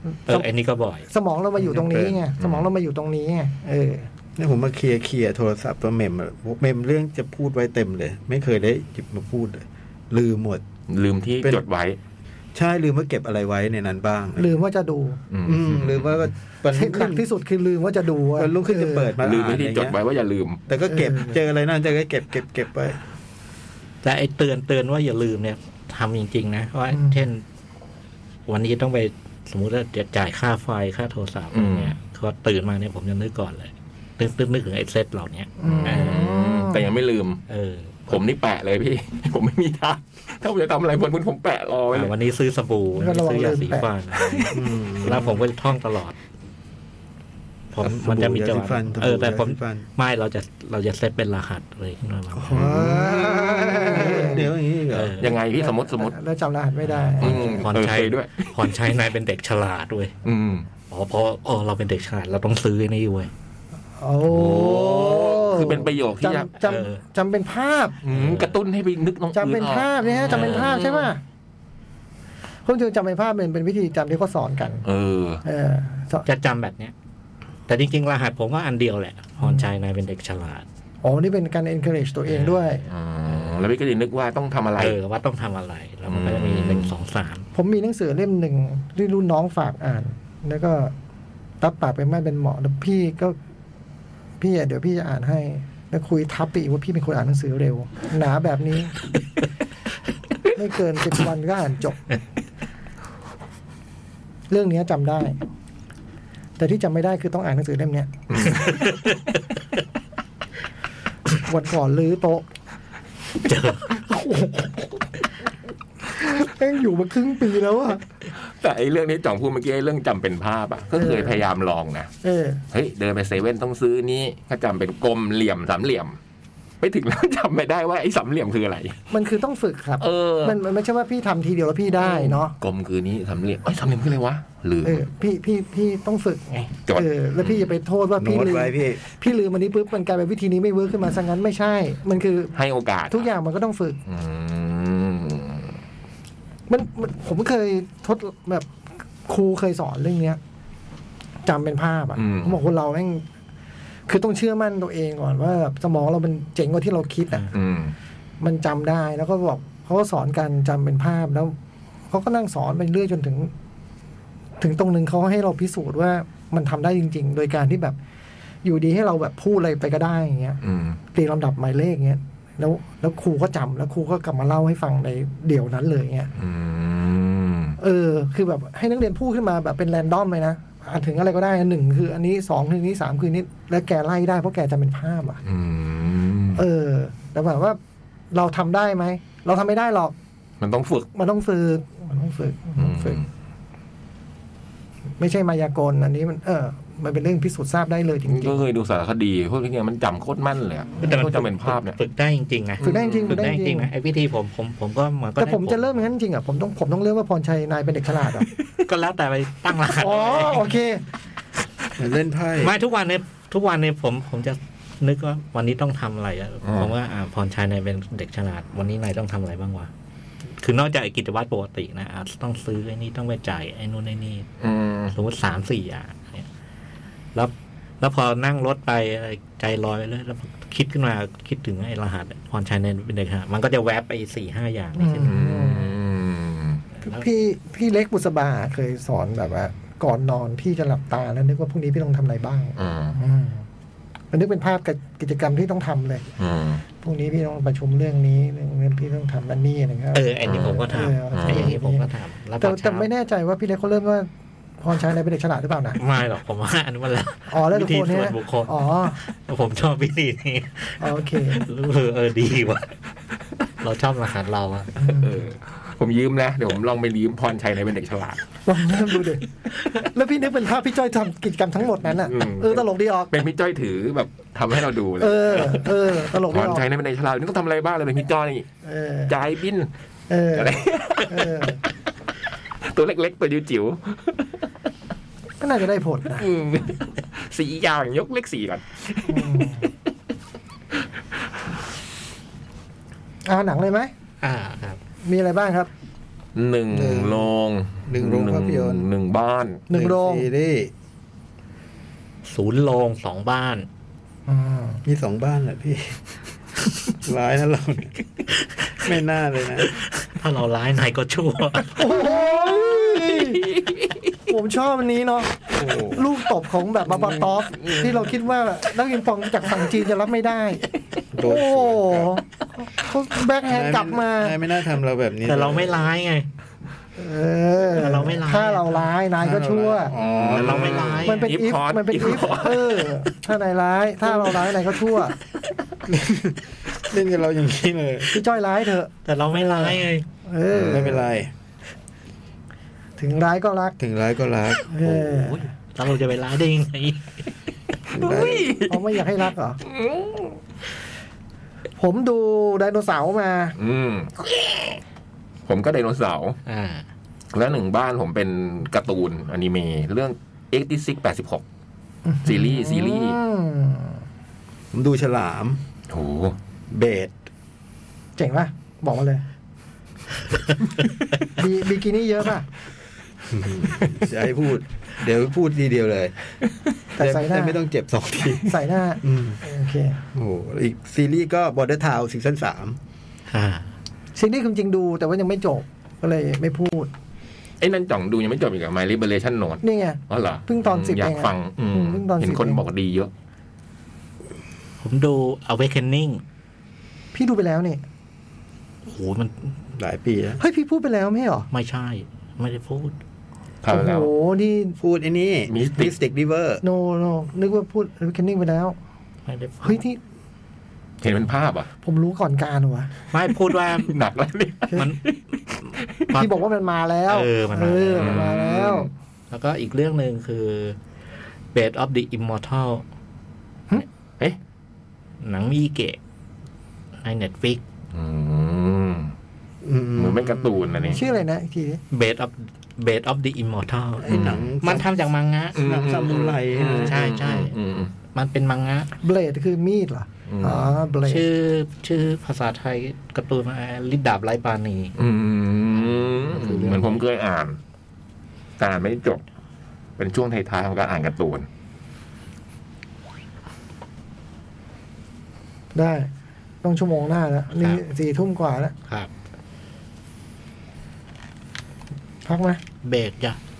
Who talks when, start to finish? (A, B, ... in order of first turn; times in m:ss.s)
0:00.3-0:01.1 A
0:01.1-0:04.1 B
0:01.6-0:02.2 C
0:02.4-0:02.7 D
0:04.4-0:10.6 C
0:10.9-0:12.0 D
0:12.5-0:14.5 C
0:14.4-0:15.2 B
0:15.3-0:16.3 D
0:15.4-0:17.2 C
0:16.7-0:19.2 B
0:18.4-0:20.0 C
0:19.2-0:20.6 D
0:20.7-0:23.0 C
0:20.9-0:21.4 B
0:24.0-0:27.4 A
0:26.9-0:27.2 B
0:28.5-0:36.3 A
0:31.5-0:31.9 D
0:35.6-0:36.9 B
0:35.6-0:37.4 D
0:37.5-0:38.2 A
0:38.1-0:42.1 D
0:41.9-0:46.2 A
0:43.0-0:44.4 B
0:44.5-0:45.4 C
0:47.7-0:52.7 A
0:47.8-0:49.9 C
0:52.3-0:54.5 B
0:52.5-0:54.4 D
0:52.6-0:55.2 C
0:54.9-0:55.3 A
0:55.2-0:56.2 D
0:55.6-0:57.7 B
0:56.8-1:00.1 A
0:57.2-0:58.7 D
1:00.2-1:00.7 D
1:00.9-1:03.3 A
1:04.0-1:08.0 B
1:04.2-1:06.5 D
1:06.6-1:07.0 A
1:08.0-1:11.1 D
1:08.1-1:08.5 A
1:09.3-1:11.2 B
1:12.6-1:14.8 B
1:14.8-1:15.4 D
1:15.4-1:16.2 B
1:16.2-1:16.9 A
1:17.7-1:20.6 A
1:19.4-1:19.7 B
1:21.0-1:22.8 B
1:22.3-1:25.0 D
1:23.3-1:23.6 A
1:24.8-1:27.5 A
1:26.1-1:26.9 D
1:27.5-1:30.9 B
1:31.6-1:33.4 B
1:34.4-1:39.0 B
1:40.5-1:42.2 B
1:44.5-1:45.4 B
1:46.6-1:48.1 B
1:48.3-1:48.9 D
1:48.6-1:49.2 A
1:51.3-1:52.4 B
1:53.4-1:53.8 A
1:54.0-1:54.7 B
1:56.0-1:58.0 B
1:58.3-2:02.1 D
2:01.0-2:01.4 B
2:02.2-2:02.6 B
2:02.7-2:06.2 D
2:06.8-2:09.0 D
2:09.1-2:12.6 B
2:10.0-2:10.6 D
2:11.9-2:15.0 D
2:14.8-2:22.6 B
2:16.9-2:17.7 D
2:18.2-2:19.0 C
2:22.5-2:23.3 D
2:23.1-2:24.0 B
2:24.1-2:25.8 D
2:26.7-2:30.4 B
2:31.4-2:33.2 B
2:32.2-2:32.6 D
2:34.1-2:37.5 B
2:37.5-2:37.9 D
2:38.4-2:41.6 B
2:42.1-2:43.5 B
2:44.6-2:48.0 B
2:48.6-2:50.6 B
2:50.6-2:51.0 D
2:51.1-2:56.3 B
2:56.4-2:57.8 D
2:57.8-3:05.4 B
3:05.4-3:06.6 D
3:06.6-3:07.8 B
3:08.3-3:10.1 B
3:10.6-3:11.1 D
3:11.1-3:13.2 B
3:12.8-3:13.3 D
3:15.2-3:18.6 B
3:18.2-3:22.0 D
3:21.0-3:26.0 A
3:22.8-3:23.5 D
3:22.8-3:23.9 B
3:25.4-3:28.5 B
3:28.8-3:30.7 A
3:30.0-3:31.0 B
3:32.0-3:32.7 C
3:32.6-3:39.9 A
3:36.6-3:36.9 D
3:40.6-3:44.5 A
3:44.6-3:45.1 D
3:45.1-3:46.5 A
3:47.3-3:55.4 A
3:55.0-3:56.0 B
3:55.2-3:56.8 D
3:57.0-3:57.2 A
3:57.0-4:03.6 B
4:02.8-4:03.2 D
4:04.3-4:06.3 B
4:06.4-4:06.8 D
4:07.0-4:14.3 B
4:10.1-4:13.1 A
4:10.4-4:11.7 D
4:14.8-4:16.0 B
4:16.0-4:22.9 A
4:17.5-4:19.2 B
4:21.0-4:21.6 B
4:23.8-4:24.9 A
4:25.0-4:25.4 B
4:25.1-4:28.4 D
4:28.6-4:33.3 B
4:32.0-4:38.7 D
4:35.2-4:36.8 B
4:38.8-4:39.3 B
4:39.3-4:39.9 D
4:40.3-4:41.8 B
4:40.5-4:41.7 D
4:42.8-4:44.4 D
4:45.6-4:46.5 B
4:46.4-4:49.9 D
4:49.3-4:49.9 B
4:53.4-4:54.1 B
4:54.4-4:55.0 A
4:55.2-4:55.9 B
4:56.5-4:59.8 D
4:56.9-4:57.5 C
4:58.0-4:59.1 C
4:59.9-5:00.5 B
4:59.9-5:00.9 C
5:02.4-5:03.9 A
5:04.5-5:05.0 B
5:05.0-5:06.2 C
5:07.1-5:08.2 C
5:08.6-5:09.0 A
5:09.0-5:09.9 C
5:09.8-5:12.0 A
5:11.9-5:13.7 B
5:12.1-5:14.3 D
5:14.5-5:20.8 B
5:15.7-5:16.3 C
5:17.2-5:18.2 D
5:21.3-5:22.4 C
5:21.4-5:24.6 B
5:23.6-5:26.1 C
5:25.4-5:26.5 A
5:27.2-5:30.1 B
5:27.9-5:29.1 A
5:29.4-5:31.2 C
5:30.2-5:33.2 D
5:30.4-5:31.5 A
5:31.2-5:35.4 B
5:36.1-5:38.4 C
5:38.3-5:41.3 B
5:39.2-5:40.3 A
5:40.7-5:41.5 C
5:40.7-5:41.0 D
5:43.2-5:44.0 B
5:44.0-5:45.6 C
5:44.9-5:45.7 B
5:45.9-5:47.4 A
5:48.1-5:48.7 C
5:48.1-5:49.2 D
5:48.9-5:49.8 B
5:49.8-5:50.5 D
5:52.0-5:53.8 B
5:53.8-5:55.0 D
5:55.7-5:56.6 D
5:56.6-5:57.0 A
5:57.5-6:01.6 D
6:02.2-6:04.2 B
6:02.4-6:03.4 D
6:04.9-6:05.8 C
6:06.1-6:06.6 D
6:06.9-6:07.3 C
6:08.4-6:09.4 B
6:11.4-6:12.7 B
6:13.5-6:16.3 C
6:17.2-6:17.8 B
6:17.2-6:19.6 C
6:18.6-6:20.2 B
6:20.3-6:23.0 C
6:23.5-6:23.9 A
6:24.3-6:27.1 B
6:27.8-6:33.3 D
6:29.8-6:32.8 B
6:35.0-6:36.4 A
6:37.3-6:38.0 B
6:39.0-6:39.8 A
6:40.0-6:40.6 C
6:40.6-6:41.7 B
6:41.7-6:43.1 A
6:43.8-6:44.3 D
6:43.9-6:45.0 B
6:45.0-6:46.8 C
6:45.7-6:46.1 D
6:46.8-6:49.0 B
6:49.4-6:50.0 A
6:49.8-6:50.2 B
6:51.2-6:51.9 D
6:52.0-6:53.1 B
6:53.3-6:54.1 A
6:53.8-6:55.4 D
6:54.9-6:55.2 A
6:56.0-6:56.3 D
6:56.3-6:59.1 B
6:57.3-6:58.5 A
6:58.1-6:59.1 D
6:59.5-7:01.0 A
7:01.7-7:03.0 A
7:05.4-7:06.2 A
7:07.2-7:07.8 A
7:08.1-7:09.3 D
7:09.8-7:10.9 C
7:10.1-7:11.2 D
7:11.0-7:12.0 B
7:12.1-7:15.9 A
7:14.2-7:15.1 C
7:14.3-7:14.6 D
7:15.7-7:17.2 C
7:15.7-7:18.1 D
7:17.0-7:17.8 A
7:18.3-7:19.1 A
7:19.2-7:21.4 B
7:20.5-7:21.0 D
7:21.2-7:25.2 A
7:25.2-7:27.8 D
7:25.9-7:27.2 A
7:28.8-7:29.4 D
7:30.2-7:31.7 D
7:35.9-7:36.3 B
7:36.8-7:38.9 B
7:37.8-7:38.0 A
7:42.4-7:42.8 B
7:43.0-7:43.6 A